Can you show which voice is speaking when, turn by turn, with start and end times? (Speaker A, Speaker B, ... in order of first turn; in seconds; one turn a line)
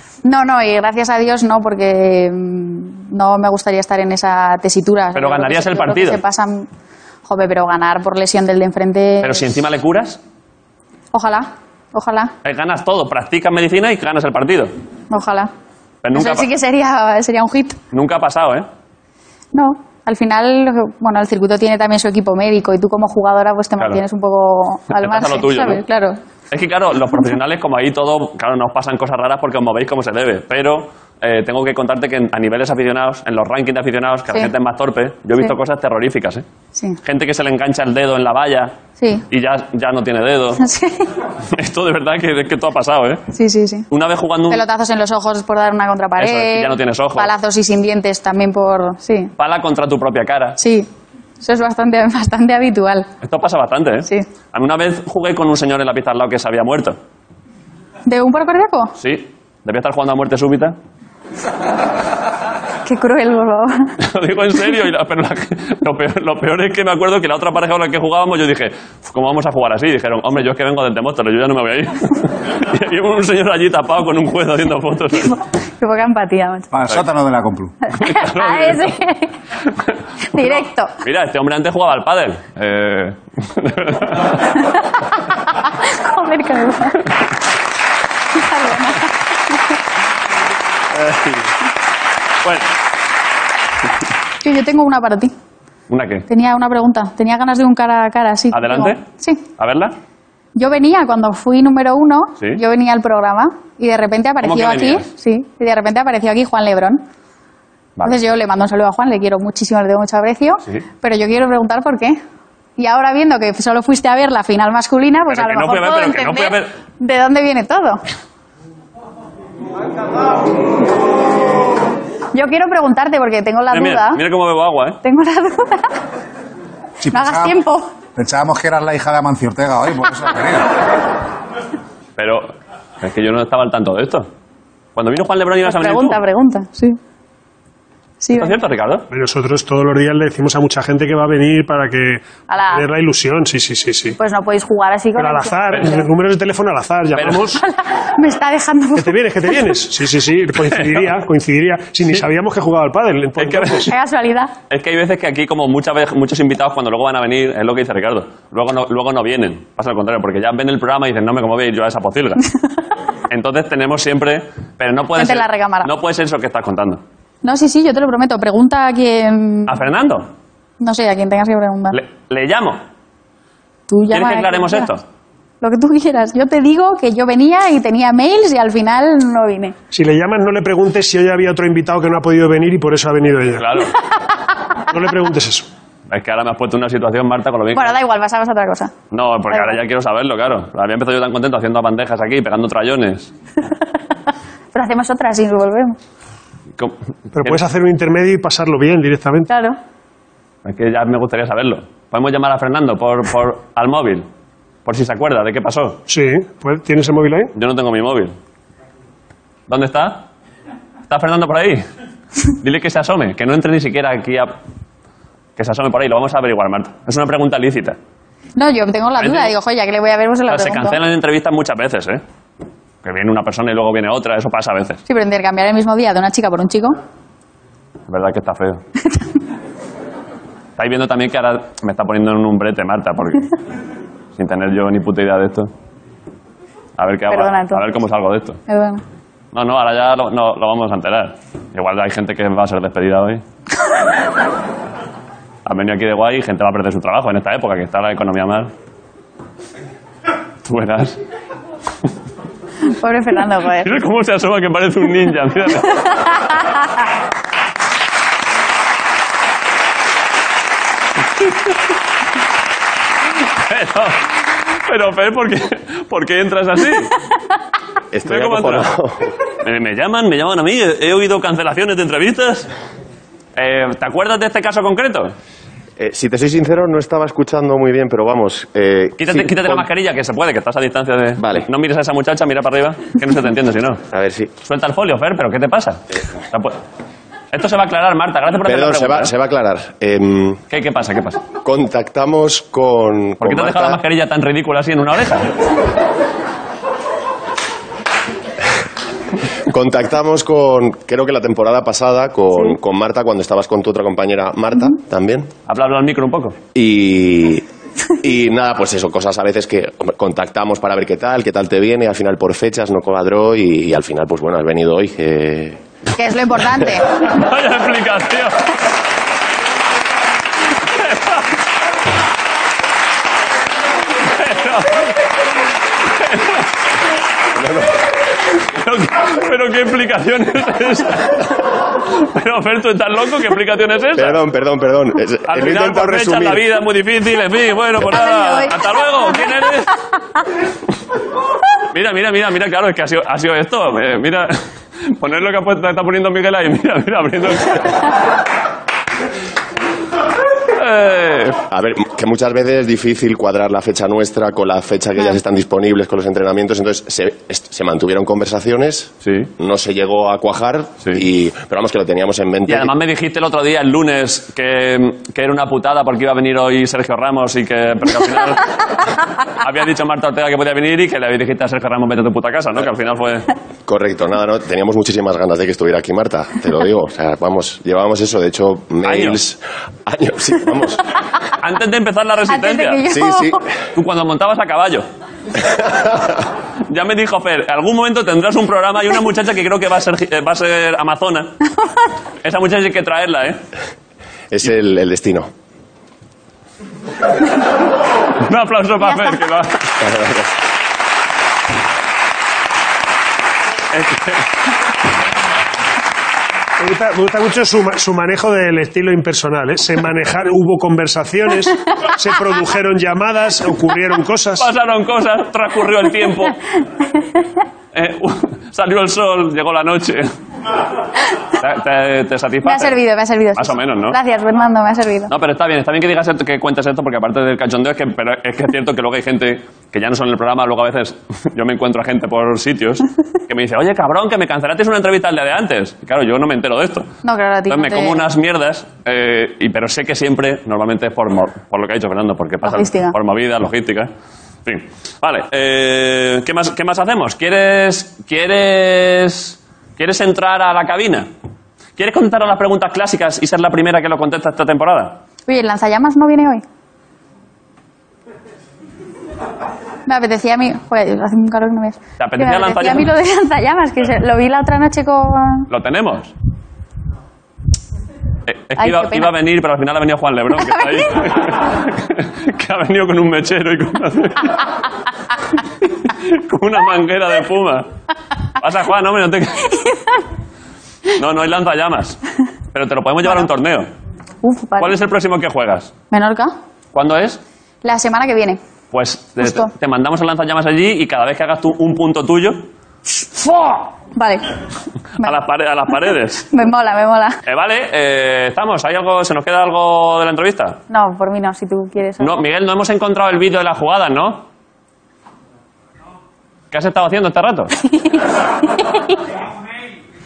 Speaker A: 0.2-6.7
Speaker B: 5.2-6.2
Speaker A: 7.3-9.4
Speaker B: 9.2-10.2
Speaker A: 11.1-12.3
Speaker B: 12.4-14.7
Speaker A: 15.1-15.5
Speaker B: 16.0-16.5
Speaker A: 16.1-17.8
Speaker B: 17.9-18.7
Speaker A: 19.5-26.2
Speaker B: 24.9-25.8
Speaker B: 26.5-36.5
Speaker B: 37.0-38.8
Speaker A: 39.0-39.2
Speaker B: 39.3-40.6
Speaker A: 40.6-41.1
Speaker B: 41.5-43.2
Speaker A: 43.3-43.9
Speaker B: 43.9-44.6
Speaker A: 44.5-49.3
Speaker B: 46.2-47.3
Speaker B: 49.4-50.6
Speaker A: 50.6-50.9
Speaker A: 51.4-53.1
Speaker B: 53.2-57.0
Speaker A: 58.1-59.0
Speaker B: 59.0-60.8
Speaker A: 62.8-64.0
Speaker B: 64.0-75.4
Speaker A: 75.3-76.7
Speaker C: 76.7-77.7
Speaker A: 77.9-79.3
Speaker B: 77.9-79.0
Speaker A: 80.3-80.9
Speaker B: 80.4-84.5
Speaker A: 85.5-87.1
Speaker A: 88.3-89.6
Speaker B: 90.9-91.5
Speaker B: 92.4-92.7
Speaker A: 94.4-95.3
Speaker B: 95.9-96.3
Speaker A: 96.3-99.4
Speaker B: 98.5-99.0
Speaker B: 99.6-100.0
Speaker A: 100.6-107.0
Speaker B: 104.4-105.1
Speaker A: 108.0-112.2
Speaker A: 112.8-118.0
Speaker B: 115.3-116.7
Speaker A: 122.3-124.2
Speaker B: 123.7-125.0
Speaker A: 125.0-126.0
Speaker C: 127.0-127.6
Speaker A: 127.1-127.9
Speaker C: 128.2-130.7
Speaker B: 132.2-134.3
Speaker B: 135.0-136.2
Speaker A: 135.7-137.0
Speaker A: 138.2-138.6
Speaker B: 138.4-139.1
Speaker D: 139.1-144.2
Speaker A: 142.5-142.9
Speaker A: 144.2-146.1
Speaker D: 145.2-147.6
Speaker B: 147.2-147.6
Speaker A: 147.6-149.6
Speaker D: 149.0-153.9
Speaker B: 150.7-151.1
Speaker B: 153.4-153.9
Speaker A: 153.9-154.5
Speaker B: 154.7-162.4
Speaker B: 163.3-167.0
Speaker A: 165.2-165.9
Speaker A: 167.4-169.8
Speaker B: 169.7-170.3
Speaker A: 170.8-172.0
Speaker B: 171.9-172.8
Speaker A: 173.9-174.9
Speaker B: 174.1-175.0
Speaker A: 175.6-179.8
Speaker D: 179.9-183.8
Speaker B: 183.6-183.9
Speaker D: 184.9-185.7
Speaker B: 186.1-187.9
Speaker A: 187.7-188.9
Speaker B: 189.1-193.3
Speaker A: 189.5-189.8
Speaker A: 194.7-196.0
Speaker B: 196.8-197.6
Speaker D: 197.3-199.5
Speaker A: 199.5-199.8
Speaker B: 200.7-204.3
Speaker B: 204.8-206.0
Speaker D: 206.1-207.5
Speaker B: 207.5-208.4
Speaker B: 209.7-210.3
Speaker B: 211.1-211.9
Speaker B: 212.6-214.6
Speaker B: 215.6-218.0
Speaker A: 218.6-221.0
Speaker B: 219.2-219.5
Speaker B: 220.5-222.2
Speaker B: 223.0-225.0
Speaker A: 225.1-227.0
Speaker B: 228.1-228.8
Speaker B: 230.8-233.5
Speaker B: 234.4-235.7
Speaker B: 237.0-238.6
Speaker A: 237.3-238.0
Speaker A: 238.7-239.0
Speaker B: 239.5-243.4
Speaker B: 245.7-248.7
Speaker B: 250.7-251.2
Speaker A: 252.9-253.9
Speaker B: 253.8-256.1
Speaker B: 263.6-264.2
Speaker B: 264.9-267.1
Speaker E: 268.1-269.3
Speaker B: 268.3-268.9
Speaker B: 269.6-272.7
Speaker B: 273.6-275.3
Speaker E: 276.0-279.9
Speaker B: 279.2-284.0
Speaker E: 281.4-281.7
Speaker E: 284.1-284.5
Speaker B: 284.6-286.8
Speaker B: 287.5-289.3
Speaker E: 288.6-290.6
Speaker B: 290.7-291.4
Speaker E: 291.6-294.0
Speaker B: 293.4-295.5
Speaker E: 299.7-305.5
Speaker B: 305.7-306.6
Speaker E: 306.8-307.6
Speaker E: 308.2-315.8
Speaker A: 316.2-317.1
Speaker B: 317.2-318.7
Speaker B: 320.9-321.5
Speaker B: 324.2-325.2
Speaker B: 326.1-326.7
Speaker E: 327.5-328.0
Speaker B: 328.6-331.4
Speaker B: 332.1-334.4
Speaker E: 334.2-336.6
Speaker B: 335.4-340.0
Speaker A: 338.1-339.4
Speaker B: 341.9-348.1
Speaker B: 350.7-351.6
Speaker E: 351.7-362.9
Speaker B: 359.2-359.5
Speaker B: 362.7-373.5
Speaker E: 373.9-381.0
Speaker B: 379.0-379.4
Speaker B: 381.6-383.0
Speaker A: 382.5-383.6
Speaker E: 383.1-383.6
Speaker B: 383.9-385.1
Speaker B: 386.9-391.6
Speaker B: 392.4-393.6
Speaker E: 394.5-395.5
Speaker B: 398.4-399.9
Speaker E: 400.0-400.5
Speaker B: 403.9-404.4
Speaker D: 406.8-414.7
Speaker B: 414.6-416.6
Speaker B: 417.9-420.3
Speaker B: 421.5-423.0
Speaker A: 422.6-425.3
Speaker B: 423.6-424.2
Speaker B: 425.3-437.1
Speaker A: 437.2-438.2
Speaker B: 437.7-444.1
Speaker A: 442.6-443.1
Speaker B: 444.6-451.3
Speaker B: 452.0-455.2
Speaker A: 455.5-456.6
Speaker A: 460.1-465.7
Speaker B: 462.2-463.1
Speaker B: 465.7-466.3
Speaker B: 468.5-474.7
Speaker A: 468.8-469.3
Speaker B: 475.9-477.9
Speaker B: 478.6-479.8
Speaker B: 481.1-482.2
Speaker B: 482.7-483.9
Speaker A: 484.4-485.0
Speaker B: 484.8-485.9
Speaker A: 486.1-486.5
Speaker B: 486.9-487.4
Speaker A: 487.8-488.6
Speaker B: 488.9-492.7
Speaker A: 489.4-489.7
Speaker A: 493.4-494.5
Speaker B: 495.2-496.5
Speaker A: 496.5-497.4
Speaker B: 497.4-500.8
Speaker A: 500.9-502.4
Speaker B: 502.2-504.5
Speaker B: 506.7-507.8